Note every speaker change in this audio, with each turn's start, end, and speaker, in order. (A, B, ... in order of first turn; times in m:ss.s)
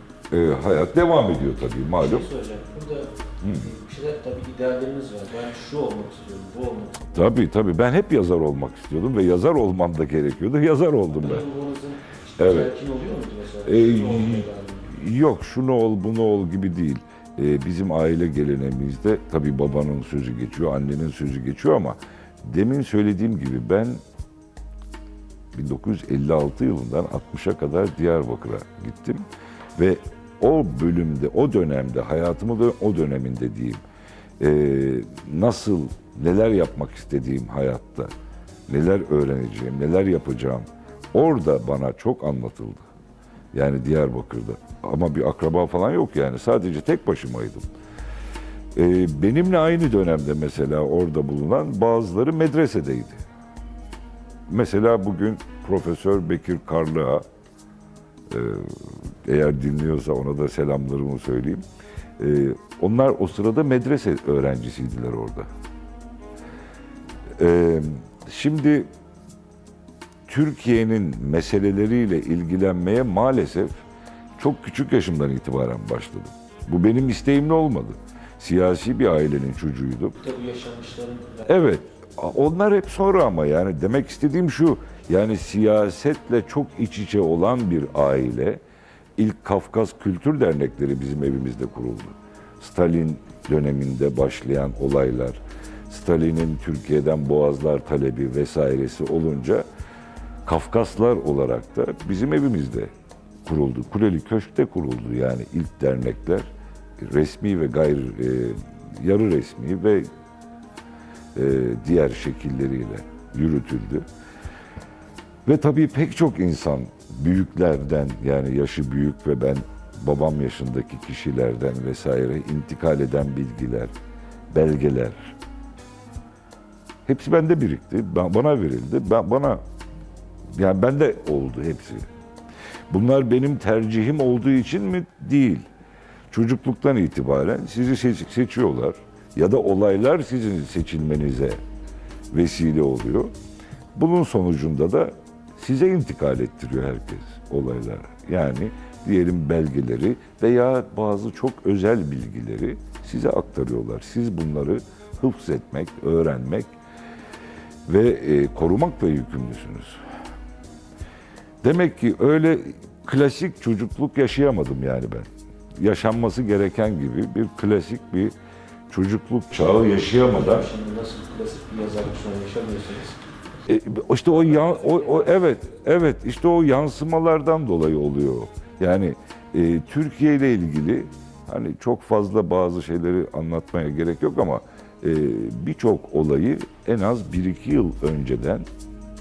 0:00.3-0:02.3 A
0:02.0-0:07.1 B
0:03.4-0:03.7 A
0:07.0-0:11.4 A
0:11.1-0:14.9 B
0:12.4-0:12.7 A
0:13.7-0:24.0 A
0:25.5-0:29.3 A
0:29.8-0:33.8 A
0:34.4-0:38.1 A
0:38.7-0:42.9 A
0:43.5-0:47.7 A
0:48.8-0:53.2 A
0:54.5-0:57.2 A
0:58.3-1:01.6 A
1:02.2-1:05.5 A
1:07.4-1:08.9 A
1:10.3-1:13.8 A
1:14.4-1:20.2 A
1:20.2-1:21.6 B
1:21.5-1:28.6 A
1:29.2-1:39.7 A
1:40.5-1:42.9 A
1:43.4-1:50.1 A
1:51.4-1:54.0 A
1:55.5-2:03.9 A
2:04.5-2:05.4 A
2:07.1-2:09.6 A
2:10.5-2:12.1 A
2:12.9-2:15.7 A
2:16.3-2:21.6 A
2:22.3-2:23.3 A
2:24.0-2:36.7 A
2:37.9-2:40.0 A
2:41.6-2:48.3 A
2:48.9-2:50.7 A
2:50.0-2:53.2 B
2:53.7-3:08.7 A
2:54.5-2:55.2 B